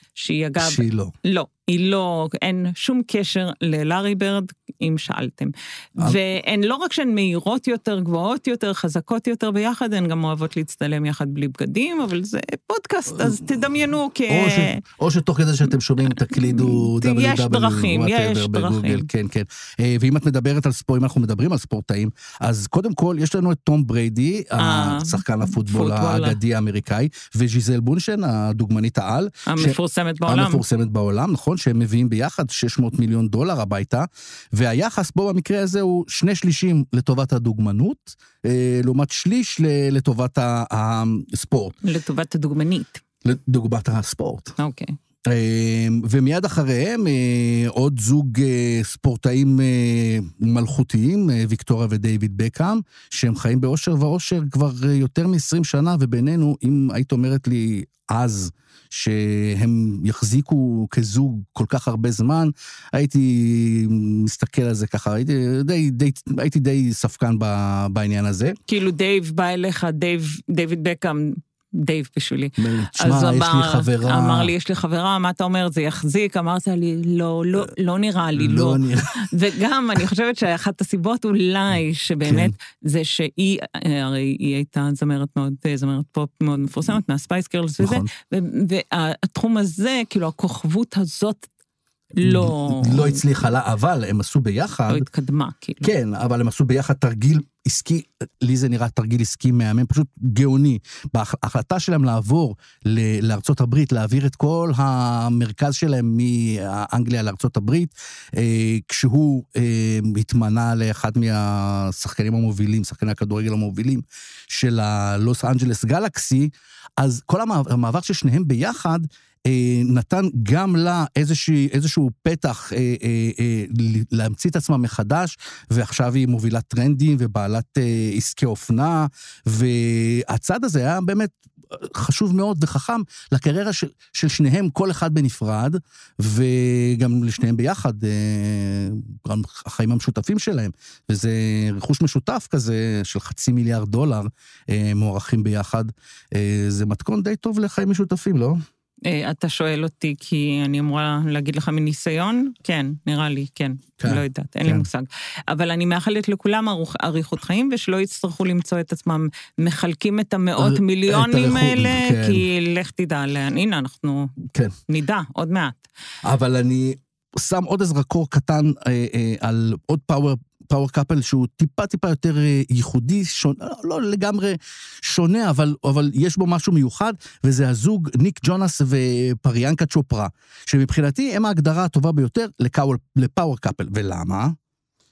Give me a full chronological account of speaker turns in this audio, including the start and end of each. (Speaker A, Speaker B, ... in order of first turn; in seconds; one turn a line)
Speaker A: 0.1-14.8
Speaker B: 0.6-1.1
Speaker B: 14.3-41.8
Speaker A: 16.2-19.1
Speaker A: 24.6-26.4
Speaker A: 29.5-30.6
Speaker A: 41.8-43.0
Speaker B: 43.2-44.5
Speaker A: 44.6-44.9
Speaker B: 45.3-68.6
Speaker A: 68.7-91.5
Speaker B: 72.6-74.5
Speaker B: 78.3-79.3
Speaker B: 82.2-82.5
Speaker B: 87.8-88.1
Speaker A: 92.2-93.2
Speaker B: 92.2-95.0
Speaker A: 94.9-95.9
Speaker B: 95.8-148.6
Speaker A: 149.0-164.3
Speaker B: 154.0-154.8
Speaker B: 160.6-162.4
Speaker A: 164.9-165.8
Speaker B: 166.2-184.6